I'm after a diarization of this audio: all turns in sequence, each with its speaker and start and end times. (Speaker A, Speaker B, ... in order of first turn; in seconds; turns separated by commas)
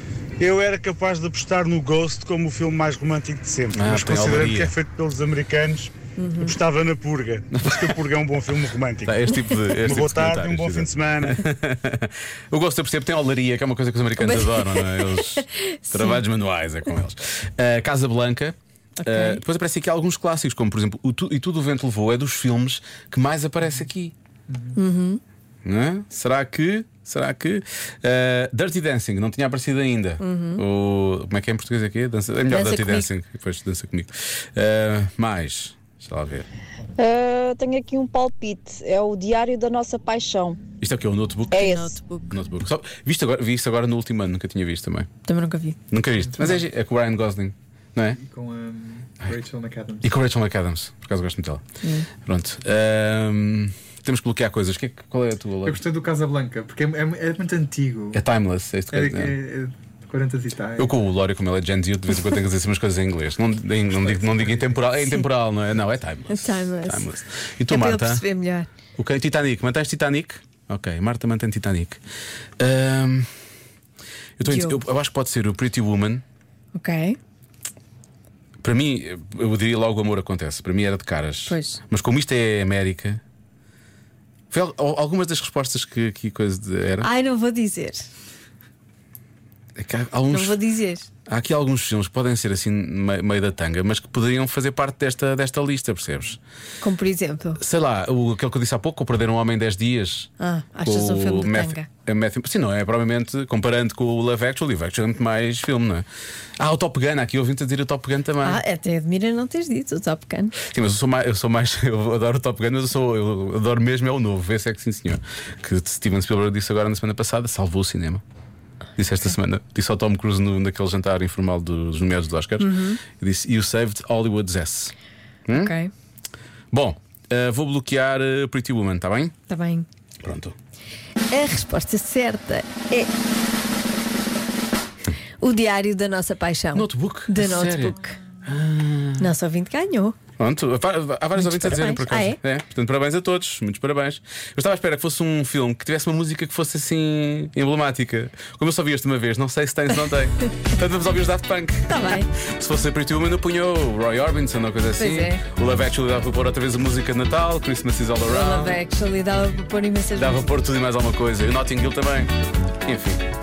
Speaker A: 0.4-11.4, Speaker B: 3.7-4.7, Speaker C: 6.2-6.5, Speaker B: 7.5-8.0, Speaker B: 9.1-24.1, Speaker C: 14.2-16.2, Speaker C: 19.0-19.4, Speaker C: 24.7-25.2, Speaker B: 25.6-36.5, Speaker C: 30.2-30.6, Speaker C: 32.5-33.1, Speaker D: 37.0-40.6, Speaker B: 40.8-45.1, Speaker D: 41.5-41.9, Speaker C: 41.5-42.4, Speaker C: 45.2-45.8, Speaker B: 45.9-48.2, Speaker E: 46.2-46.6, Speaker E: 48.1-50.1, Speaker B: 50.0-51.6, Speaker C: 51.8-52.1, Speaker B: 52.2-55.8, Speaker E: 55.6-58.2, Speaker B: 58.1-59.4, Speaker E: 58.9-60.9, Speaker B: 60.8-68.2, Speaker C: 65.0-65.3, Speaker C: 66.3-67.1, Speaker C: 67.7-68.7, Speaker B: 69.0-72.0, Speaker B: 72.6-73.3, Speaker B: 74.4-76.2, Speaker C: 74.4-74.8, Speaker C: 76.7-77.2, Speaker B: 78.6-83.2, Speaker C: 81.5-81.8, Speaker B: 84.5-87.1, Speaker C: 87.0-88.1, Speaker B: 89.8-90.6, Speaker C: 90.3-91.1, Speaker B: 91.2-96.4, Speaker C: 96.8-97.6, Speaker B: 97.6-100.3, Speaker C: 100.4-101.9, Speaker B: 100.8-106.0, Speaker B: 106.6-108.6, Speaker C: 108.4-110.5, Speaker B: 110.6-118.2, Speaker B: 119.0-124.9, Speaker C: 122.6-123.0, Speaker B: 125.5-125.7, Speaker C: 125.5-125.9, Speaker B: 126.7-129.3, Speaker C: 129.5-129.8, Speaker B: 130.2-130.5, Speaker C: 131.3-133.1, Speaker C: 135.4-138.2, Speaker B: 136.7-139.3, Speaker C: 139.2-140.2, Speaker B: 140.4-158.8, Speaker C: 141.3-142.4, Speaker C: 151.9-152.3, Speaker C: 155.0-155.4, Speaker C: 158.3-160.5, Speaker B: 160.1-162.3, Speaker B: 162.8-163.2